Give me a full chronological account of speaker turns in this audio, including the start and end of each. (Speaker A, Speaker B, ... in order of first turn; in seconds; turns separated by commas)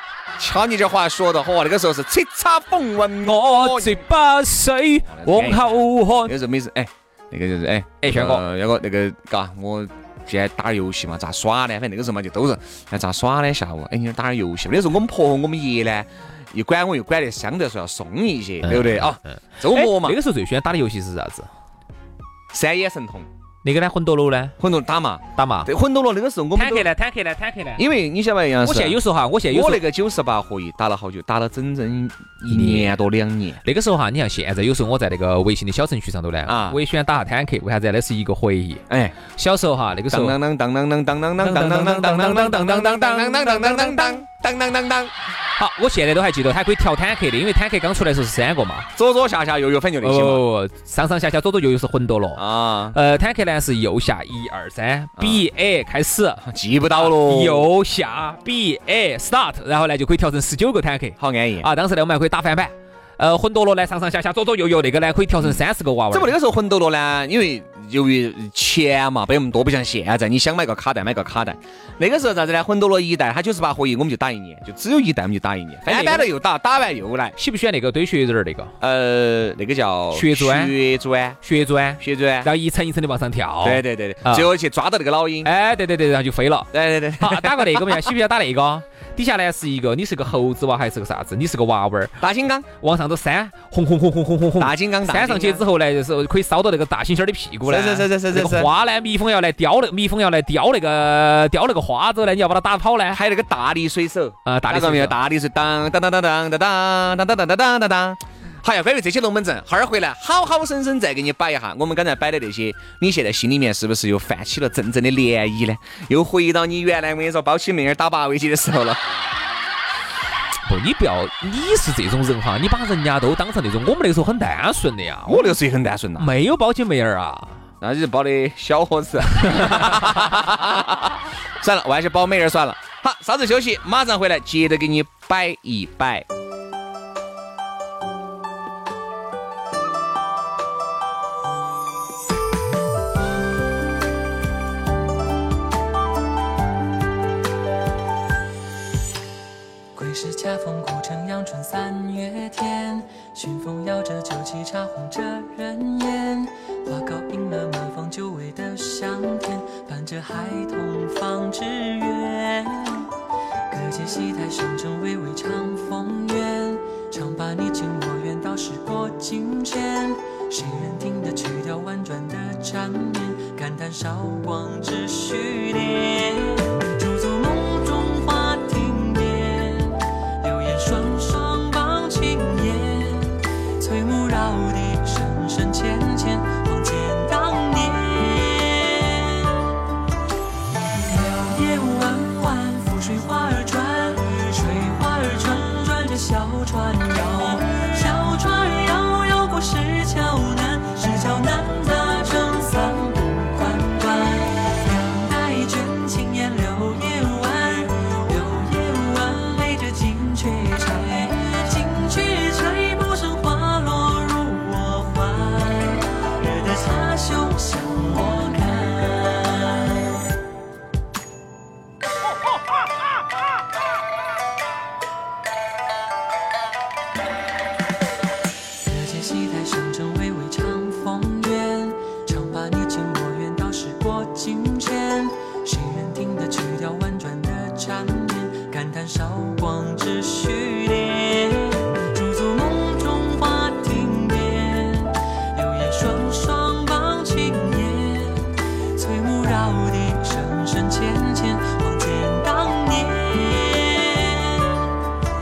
Speaker A: 0.4-4.0, Speaker B: 3.2-6.3, Speaker A: 5.1-20.2, Speaker B: 8.0-8.4, Speaker B: 18.6-21.5, Speaker A: 22.5-23.3, Speaker B: 23.6-24.6, Speaker A: 24.6-26.9, Speaker B: 25.4-25.7, Speaker B: 26.5-27.8, Speaker A: 27.8-33.6, Speaker B: 28.6-29.8, Speaker B: 32.5-32.9, Speaker B: 33.6-40.4, Speaker A: 36.5-36.8, Speaker A: 38.9-39.2, Speaker A: 40.1-45.1, Speaker B: 41.4-44.2, Speaker B: 45.6-48.9, Speaker A: 49.0-50.4, Speaker B: 50.0-56.4, Speaker A: 52.4-53.0, Speaker A: 55.2-55.4, Speaker A: 56.4-57.7, Speaker B: 56.9-66.3, Speaker A: 61.2-61.7, Speaker A: 66.1-77.4, Speaker B: 75.8-76.3, Speaker B: 77.4-78.7, Speaker A: 78.8-81.4, Speaker B: 80.1-80.7, Speaker B: 81.4-84.5, Speaker A: 82.0-82.5, Speaker A: 83.6-85.5, Speaker B: 85.4-92.2, Speaker A: 86.7-88.1, Speaker A: 92.2-92.7, Speaker B: 92.8-103.2, Speaker A: 94.6-95.6, Speaker A: 97.7-98.7, Speaker A: 103.1-119.0, Speaker B: 104.5-105.2, Speaker B: 120.7-125.5, Speaker A: 125.3-126.3, Speaker B: 126.2-127.6, Speaker A: 127.8-136.3, Speaker B: 129.3-130.3, Speaker C: 149.9-163.1, Speaker C: 163.7-189.8, Speaker C: 190.7-220.2, Speaker C: 228.8-254.9